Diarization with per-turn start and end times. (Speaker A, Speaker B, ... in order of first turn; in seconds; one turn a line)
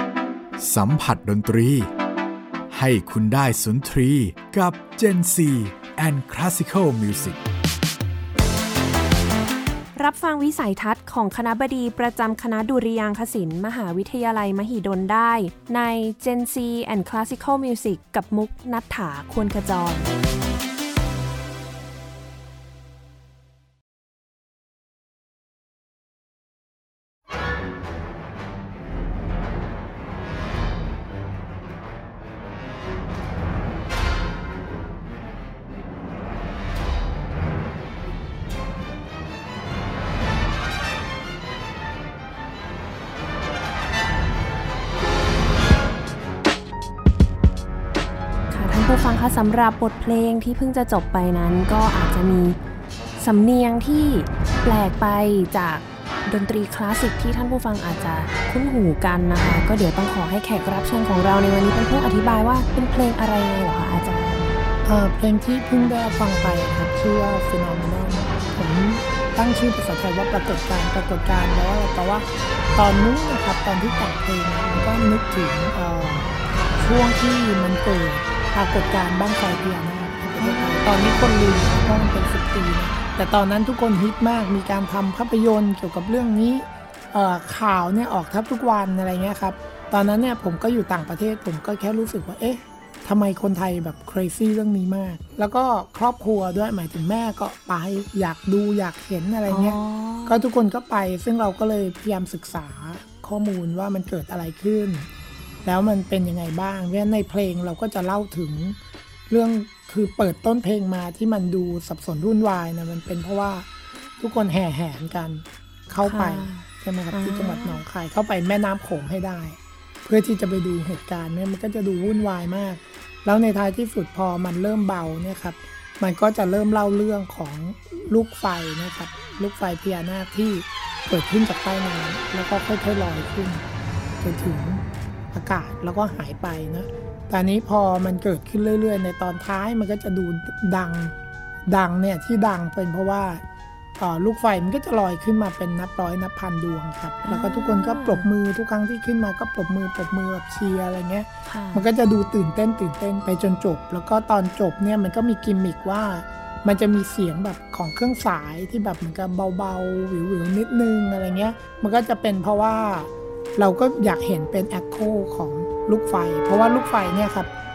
Speaker A: 0.6-1.9
Speaker A: 2.7-7.4
Speaker B: 9.9-20.1
Speaker B: 48.5-52.6
Speaker B: 53.2-64.6
Speaker C: 64.8-105.1
Speaker B: 99.5-100.4
Speaker C: 105.6-108.8
Speaker C: 109.3-113.7
Speaker C: 114.2-133.7
Speaker B: 116.0-117.8
Speaker C: 134.2-141.2
Speaker C: 141.7-143.4
Speaker C: 144.0-167.5
Speaker B: 147.3-148.3
Speaker B: 151.5-151.9